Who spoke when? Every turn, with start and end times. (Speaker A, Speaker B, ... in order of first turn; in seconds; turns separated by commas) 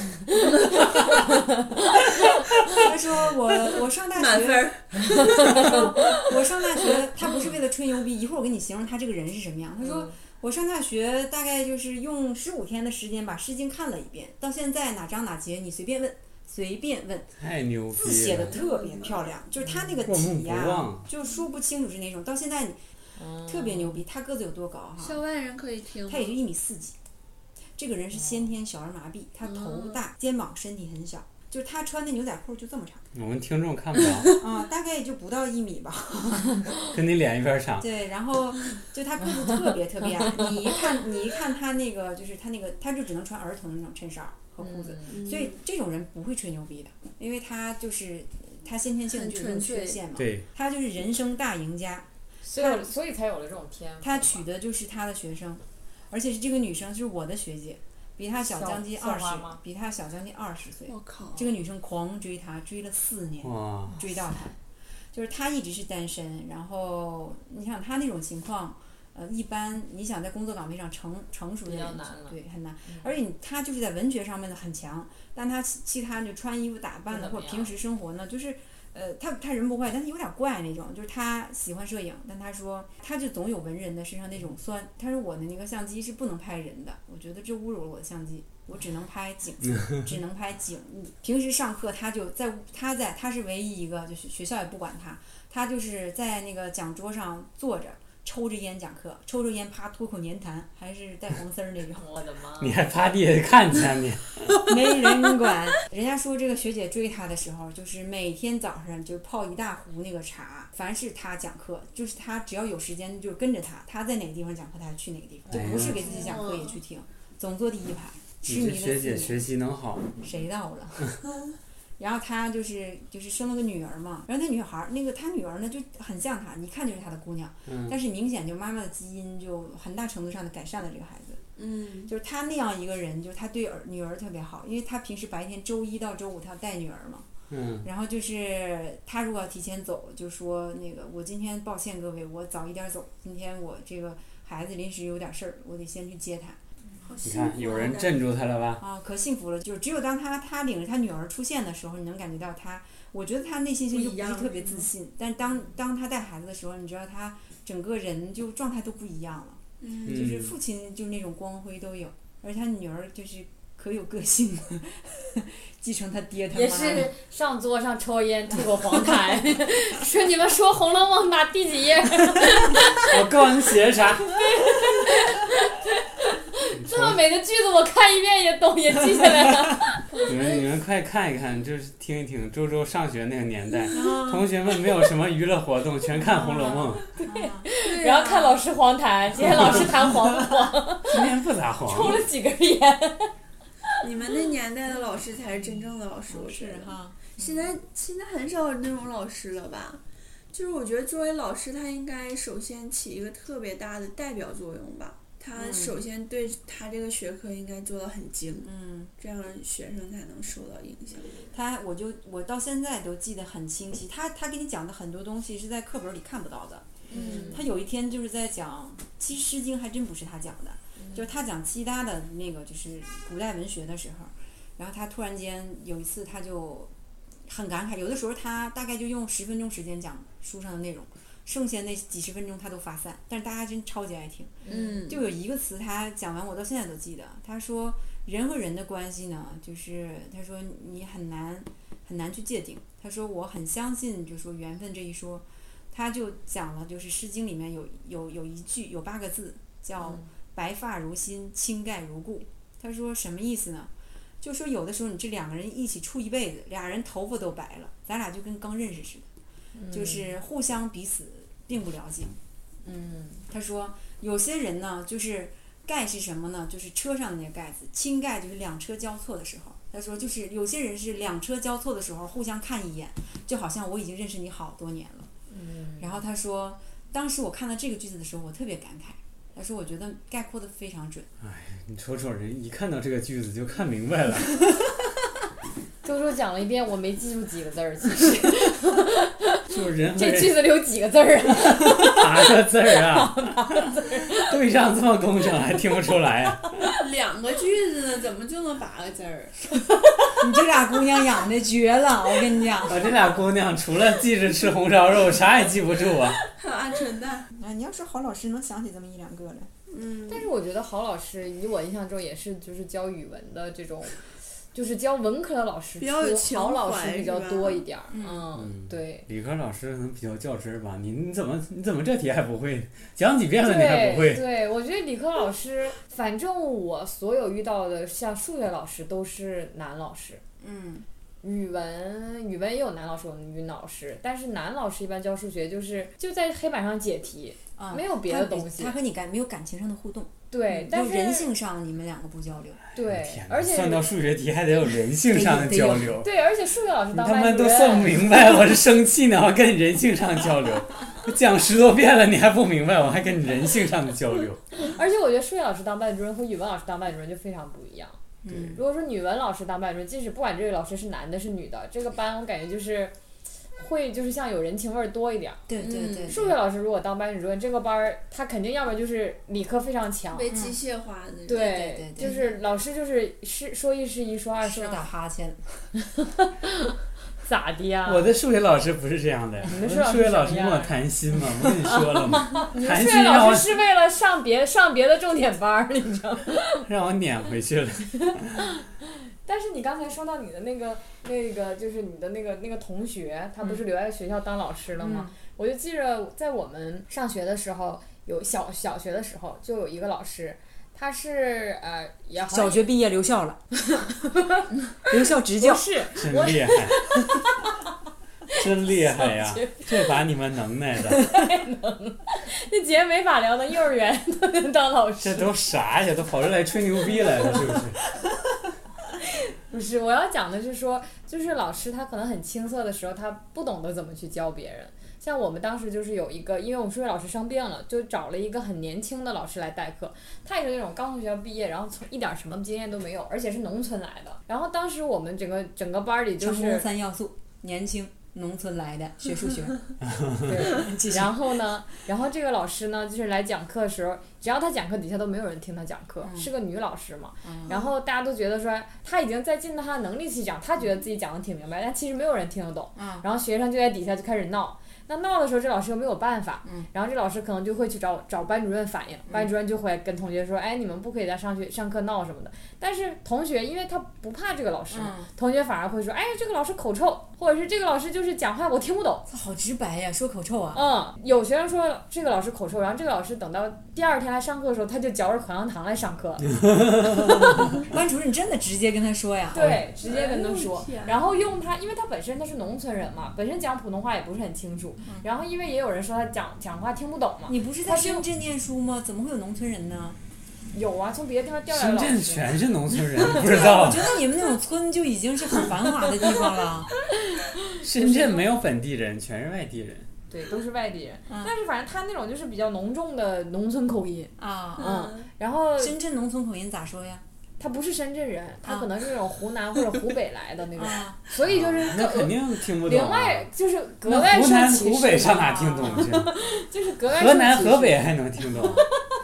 Speaker A: 0.3-0.9, Speaker B: 0.7-1.4, Speaker B: 2.6-17.3, Speaker A: 3.7-6.9, Speaker C: 17.4-18.6, Speaker B: 18.0-22.8, Speaker A: 18.6-19.2, Speaker C: 20.1-21.1, Speaker D: 23.2-24.0, Speaker B: 23.4-25.2, Speaker A: 25.0-26.3, Speaker B: 26.1-26.9, Speaker B: 27.8-33.0, Speaker A: 29.5-30.0, Speaker C: 33.1-34.4, Speaker B: 34.4-36.7, Speaker C: 36.9-37.9, Speaker B: 37.8-52.9, Speaker D: 44.6-45.3, Speaker A: 45.1-45.6, Speaker A: 49.1-50.0, Speaker C: 50.2-50.5, Speaker D: 52.4-54.4, Speaker B: 54.0-64.6, Speaker D: 58.5-59.6, Speaker A: 60.9-61.5, Speaker C: 63.4-64.0, Speaker B: 65.1-102.1, Speaker D: 71.7-72.4, Speaker D: 77.1-77.7, Speaker D: 102.0-102.8, Speaker C: 102.6-104.6, Speaker B: 104.5-119.5, Speaker D: 115.5-116.3, Speaker C: 115.5-116.1, Speaker A: 116.0-116.8, Speaker C: 118.5-120.1, Speaker B: 120.2-121.2, Speaker B: 122.0-131.4, Speaker C: 127.7-128.0, Speaker A: 131.6-132.1, Speaker B: 132.1-137.3, Speaker C: 137.5-137.9, Speaker B: 137.8-146.6, Speaker A: 147.0-148.3, Speaker C: 147.2-148.8, Speaker B: 148.8-167.1, Speaker A: 153.9-154.9, Speaker A: 159.8-160.2, Speaker C: 160.1-160.5, Speaker D: 166.5-173.3, Speaker C: 173.0-174.4, Speaker D: 174.2-180.2, Speaker C: 176.7-177.2, Speaker C: 180.2-187.0, Speaker B: 183.9-184.5, Speaker B: 186.2-187.7, Speaker D: 187.2-191.3, Speaker A: 187.8-188.6, Speaker C: 189.6-189.8, Speaker C: 191.1-192.2, Speaker D: 191.9-193.3, Speaker A: 194.0-211.3, Speaker B: 196.3-197.5, Speaker B: 205.5-206.0, Speaker B: 208.6-209.1, Speaker B: 211.5-226.9, Speaker A: 217.1-217.7, Speaker D: 217.1-217.7, Speaker B: 227.5-259.3, Speaker D: 234.6-235.0, Speaker A: 234.7-235.2, Speaker D: 259.8-260.4, Speaker B: 259.9-262.4, Speaker D: 262.9-263.4, Speaker B: 263.5-275.3, Speaker D: 275.5-276.2, Speaker B: 276.0-281.3, Speaker C: 281.4-284.7, Speaker D: 286.0-294.5, Speaker C: 289.7-290.7, Speaker C: 291.6-296.9, Speaker A: 296.9-299.8, Speaker B: 300.4-303.1, Speaker C: 302.8-306.4, Speaker A: 306.4-307.5, Speaker B: 307.6-309.7, Speaker A: 309.9-310.5, Speaker D: 310.3-319.3, Speaker A: 316.0-317.9, Speaker B: 318.1-318.5, Speaker C: 318.5-324.4, Speaker D: 323.6-330.4, Speaker B: 330.6-331.1, Speaker D: 331.4-339.0, Speaker B: 337.8-342.8, Speaker D: 340.5-341.5, Speaker D: 342.9-344.1, Speaker C: 343.0-346.3, Speaker B: 345.3-346.2, Speaker D: 346.2-348.6, Speaker C: 347.1-354.6, Speaker D: 354.8-363.2, Speaker B: 358.4-358.8, Speaker D: 363.8-365.7, Speaker B: 365.7-366.6, Speaker A: 365.8-366.4, Speaker D: 366.3-370.5, Speaker A: 370.3-371.9, Speaker B: 370.5-370.8, Speaker D: 371.5-375.1, Speaker B: 371.8-372.6, Speaker B: 374.6-375.9, Speaker D: 376.0-378.3, Speaker C: 378.1-383.7, Speaker D: 379.7-380.9, Speaker D: 382.4-386.9, Speaker C: 386.9-388.6, Speaker D: 388.8-402.9, Speaker B: 395.0-395.3, Speaker B: 402.5-403.6, Speaker D: 403.9-407.9, Speaker B: 405.1-405.8, Speaker C: 406.1-407.0, Speaker C: 408.5-411.3, Speaker D: 408.9-410.2, Speaker D: 411.1-415.5, Speaker C: 415.2-418.0, Speaker D: 419.7-436.9, Speaker B: 436.4-441.4, Speaker C: 440.1-440.5, Speaker D: 440.4-469.3, Speaker B: 446.2-446.5, Speaker B: 447.4-447.9, Speaker B: 453.0-453.2, Speaker B: 464.9-465.3, Speaker B: 469.3-470.8, Speaker D: 470.7-476.5, Speaker C: 476.6-477.2, Speaker B: 477.7-479.8, Speaker D: 479.5-488.2, Speaker A: 480.0-481.4, Speaker B: 487.5-490.2, Speaker D: 490.7-492.6, Speaker C: 491.7-494.1, Speaker B: 493.4-496.9, Speaker C: 497.8-500.1, Speaker D: 498.0-498.4, Speaker D: 500.3-506.0, Speaker B: 504.4-505.1, Speaker A: 504.8-505.3, Speaker B: 505.8-507.2, Speaker D: 507.6-518.1, Speaker B: 508.6-508.9, Speaker B: 510.7-511.2, Speaker C: 511.4-513.5, Speaker C: 514.0-516.4, Speaker C: 517.1-518.9, Speaker D: 518.6-518.9